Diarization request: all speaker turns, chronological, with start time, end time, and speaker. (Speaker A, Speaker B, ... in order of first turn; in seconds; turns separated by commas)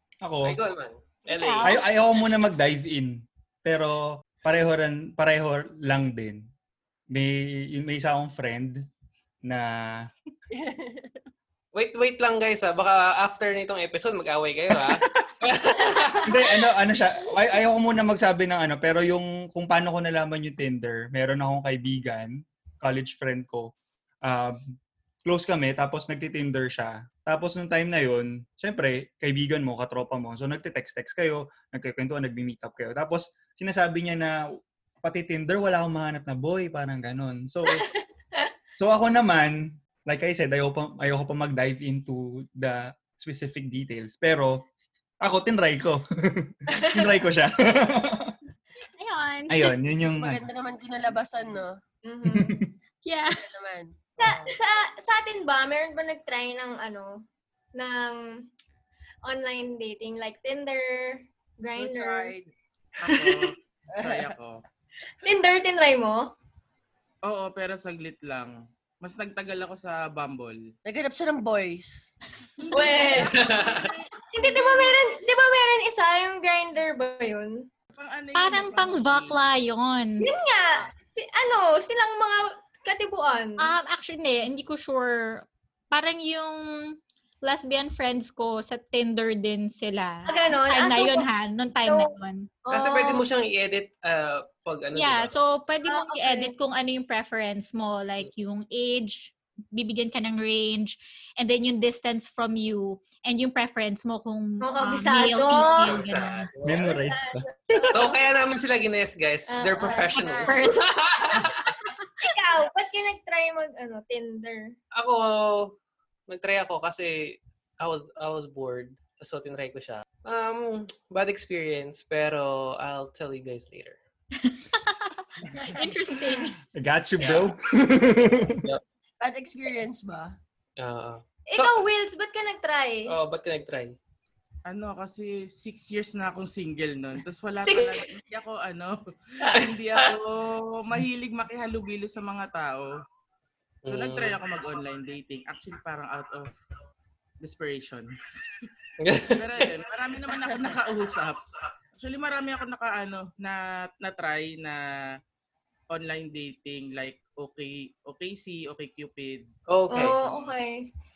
Speaker A: 0.2-0.6, Speaker B: 0.5-1.8, Speaker C: 1.3-1.8, Speaker A: 1.6-6.5, Speaker A: 7.1-8.9, Speaker A: 9.5-10.1, Speaker D: 10.5-11.2, Speaker B: 11.7-16.4, Speaker A: 14.8-15.3, Speaker A: 16.3-24.6, Speaker A: 25.3-34.4, Speaker A: 35.0-37.9, Speaker E: 37.7-38.5, Speaker A: 38.8-44.6, Speaker A: 45.2-48.4, Speaker E: 46.7-47.2, Speaker C: 49.0-49.7, Speaker A: 49.5-50.4, Speaker D: 50.0-51.8, Speaker E: 52.0-52.5, Speaker A: 52.2-52.7, Speaker C: 53.0-53.4, Speaker D: 53.3-54.5, Speaker E: 54.2-58.2, Speaker E: 59.2-62.3, Speaker D: 61.8-62.5, Speaker F: 63.0-64.6, Speaker B: 63.1-63.5, Speaker D: 64.0-64.3, Speaker E: 65.2-66.3, Speaker F: 67.3-70.6, Speaker D: 70.9-72.1, Speaker F: 72.7-73.4, Speaker E: 72.7-77.7, Speaker B: 73.2-73.9, Speaker D: 74.4-74.9, Speaker F: 77.9-79.4, Speaker C: 78.4-80.3, Speaker E: 80.2-83.7, Speaker C: 83.6-92.5, Speaker E: 90.3-91.3, Speaker E: 91.8-92.1, Speaker E: 92.7-93.2, Speaker B: 92.7-95.3, Speaker C: 94.9-106.5, Speaker E: 95.8-96.5, Speaker E: 104.6-106.0, Speaker B: 105.8-107.0, Speaker A: 106.6-108.0, Speaker E: 106.9-107.9, Speaker B: 107.9-111.7, Speaker E: 109.5-110.6, Speaker C: 110.2-110.9, Speaker E: 112.2-114.8, Speaker B: 115.0-115.8, Speaker B: 116.3-124.0, Speaker C: 124.4-126.5, Speaker A: 126.7-128.6, Speaker B: 127.2-127.5, Speaker D: 129.2-130.3, Speaker B: 130.8-131.8, Speaker E: 131.5-133.1, Speaker B: 133.1-134.0, Speaker F: 134.7-142.9, Speaker E: 137.7-138.0, Speaker B: 139.5-140.1, Speaker B: 143.8-144.4, Speaker F: 143.9-146.6, Speaker F: 147.4-148.7, Speaker B: 149.0-149.7, Speaker F: 149.3-154.8, Speaker F: 155.9-159.5, Speaker B: 159.7-160.2, Speaker E: 159.9-160.9, Speaker F: 160.1-160.5